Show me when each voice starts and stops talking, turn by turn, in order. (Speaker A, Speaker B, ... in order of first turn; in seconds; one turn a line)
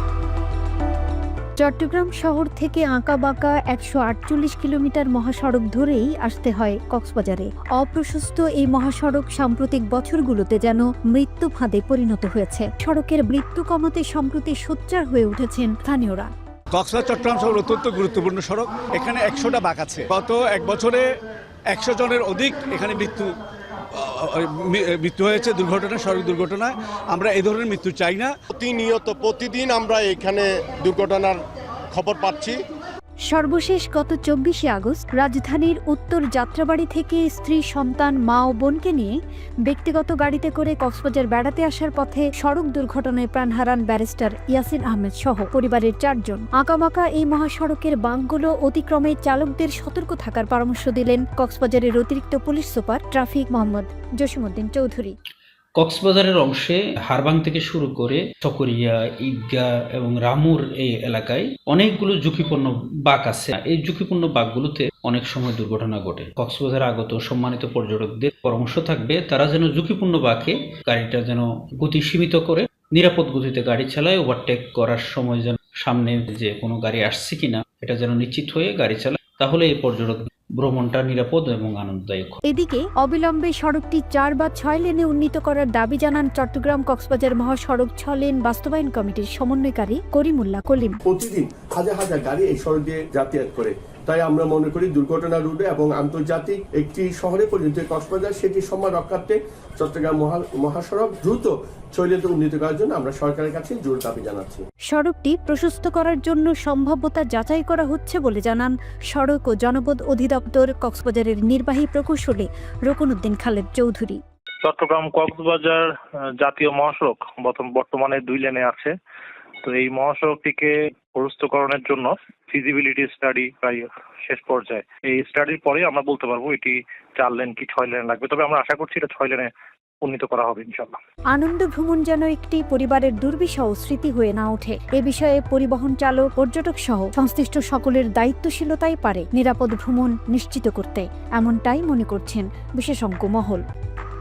Speaker A: 1.6-16.3
Speaker B: 16.7-21.1
Speaker B: 21.7-23.4
Speaker B: 23.9-28.3
Speaker C: 28.5-32.6
Speaker A: 33.3-39.1
Speaker A: 39.6-55.1
Speaker D: 55.8-82.4
Speaker A: 82.4-91.0
Speaker E: 91.0-104.6
Speaker A: 104.9-114.2
Speaker F: 114.6-118.9
Speaker F: 119.6-129.5
Speaker F: 130.0-131.0
Speaker A: 131.3-143.6